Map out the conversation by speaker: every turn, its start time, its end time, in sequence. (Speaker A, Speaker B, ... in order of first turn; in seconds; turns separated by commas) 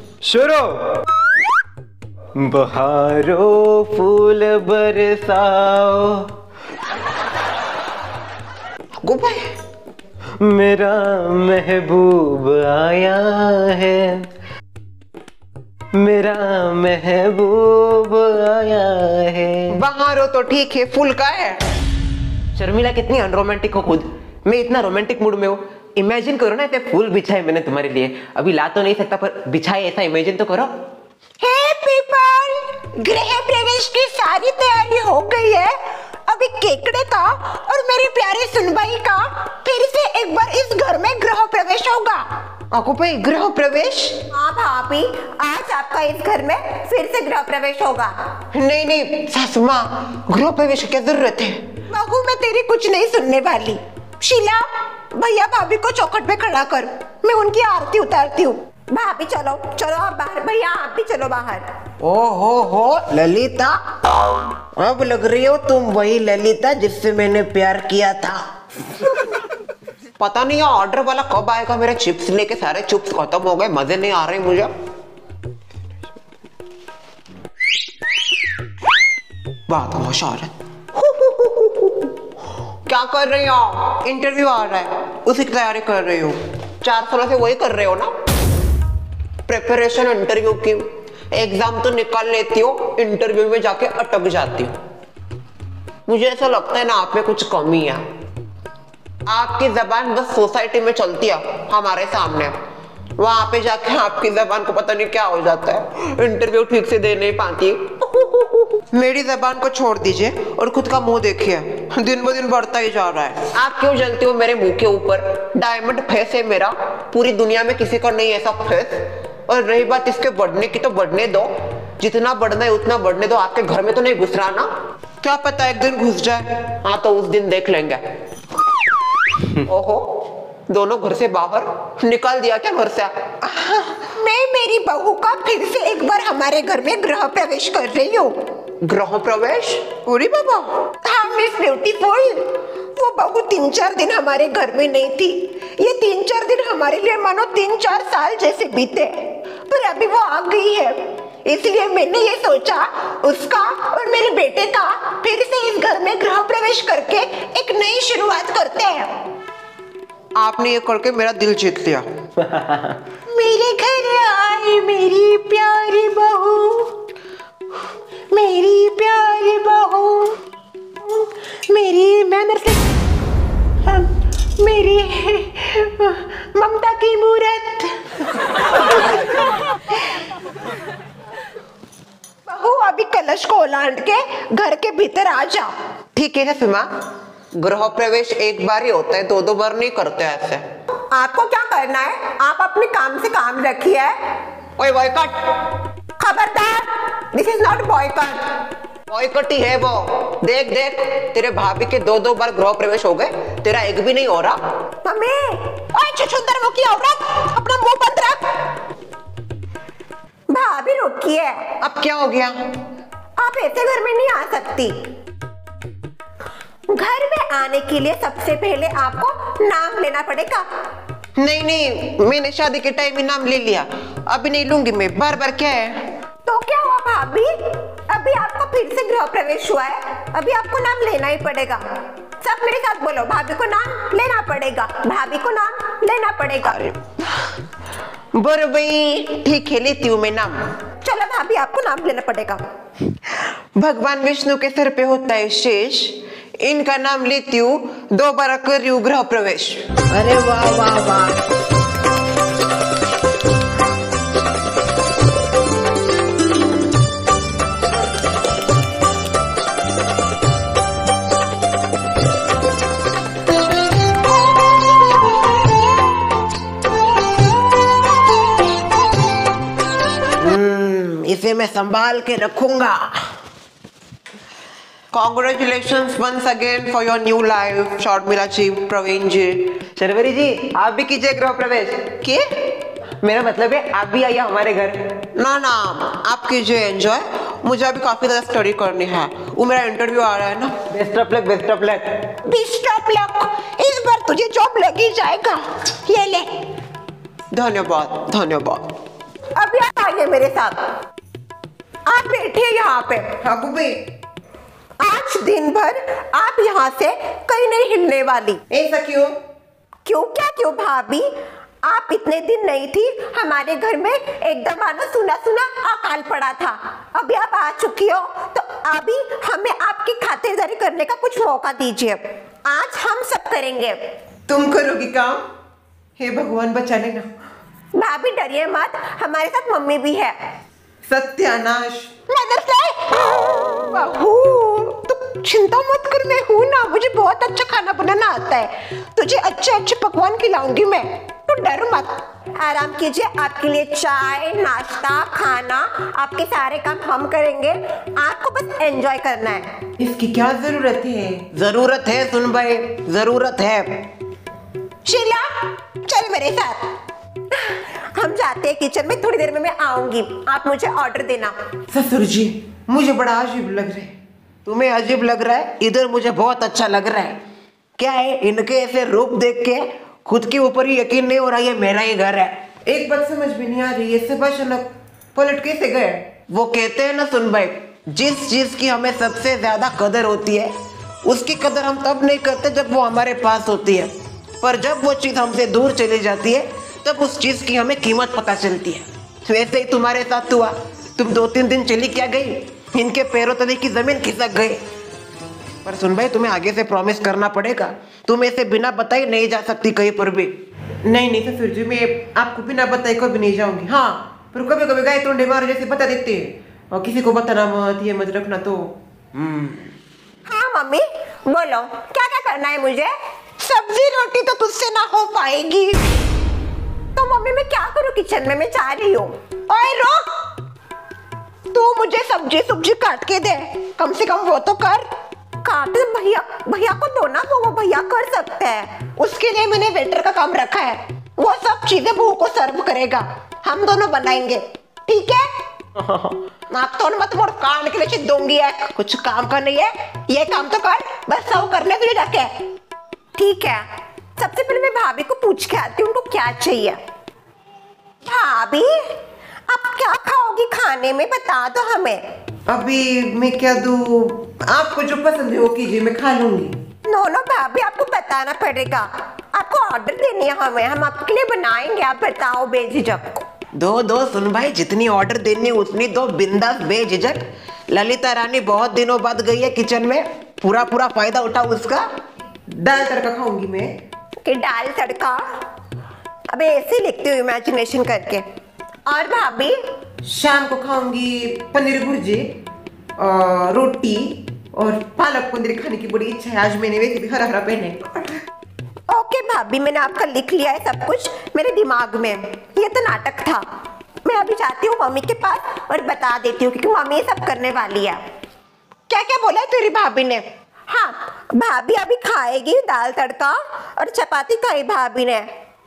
Speaker A: 2.4-6.2, Speaker B: 9.0-9.5, Speaker A: 10.4-14.2, Speaker A: 16.0-19.5, Speaker B: 19.7-21.6, Speaker B: 22.6-30.7, Speaker C: 31.4-42.3, Speaker B: 42.7-44.3, Speaker C: 44.3-48.4, Speaker B: 48.5-51.7, Speaker C: 51.9-61.7, Speaker B: 62.0-63.8, Speaker B: 64.8-68.5, Speaker B: 70.2-74.7, Speaker B: 79.7-82.1, Speaker B: 82.9-88.1, Speaker B: 89.5-94.8, Speaker B: 96.1-98.0, Speaker B: 99.3-102.6, Speaker B: 103.2-124.7, Speaker B: 125.2-128.0, Speaker B: 129.6-133.3, Speaker C: 133.5-138.5, Speaker B: 138.8-140.1, Speaker C: 140.1-159.2, Speaker B: 160.3-162.5, Speaker C: 163.3-167.0, Speaker C: 168.3-170.4, Speaker C: 171.0-172.9, Speaker C: 173.8-179.4, Speaker C: 182.5-185.8, Speaker B: 186.1-186.9, Speaker B: 187.6-190.7, Speaker C: 191.1-194.4, Speaker B: 194.8-195.4, Speaker C: 196.2-198.7, Speaker B: 199.1-204.6, Speaker C: 205.0-208.7, Speaker C: 210.5-211.8, Speaker B: 211.8-212.7, Speaker C: 213.4-215.0, Speaker C: 216.9-220.7, Speaker B: 221.4-226.0, Speaker C: 226.4-236.9, Speaker B: 238.3-240.6, Speaker C: 241.0-242.6, Speaker B: 243.3-251.3, Speaker B: 270.4-273.4, Speaker B: 275.1-282.7, Speaker B: 283.2-292.0, Speaker C: 292.4-296.6, Speaker B: 297.5-298.8, Speaker C: 299.6-300.9, Speaker C: 302.1-303.4, Speaker B: 303.4-304.0, Speaker C: 305.0-308.7, Speaker B: 308.7-309.3, Speaker C: 310.1-311.3, Speaker C: 311.9-324.1, Speaker B: 324.5-325.4, Speaker B: 326.2-327.3, Speaker C: 327.9-330.5, Speaker B: 331.1-332.1, Speaker C: 332.3-349.9, Speaker B: 350.0-354.1, Speaker C: 355.1-357.0, Speaker C: 357.5-361.6, Speaker B: 361.9-364.1, Speaker B: 364.6-367.4, Speaker B: 368.0-394.8, Speaker B: 395.8-409.9, Speaker C: 410.5-416.1, Speaker C: 417.1-420.6, Speaker C: 421.7-425.1, Speaker C: 425.6-435.5, Speaker B: 436.0-436.4, Speaker C: 436.7-442.6, Speaker C: 443.4-447.0, Speaker C: 448.2-452.3, Speaker B: 452.7-456.8, Speaker C: 457.1-463.5, Speaker B: 463.8-472.1, Speaker B: 472.7-474.0, Speaker C: 474.4-475.6, Speaker C: 476.5-478.5, Speaker C: 479.1-479.9, Speaker B: 480.2-482.5, Speaker B: 483.2-488.4, Speaker C: 489.1-493.7, Speaker C: 494.2-498.2, Speaker C: 499.1-505.5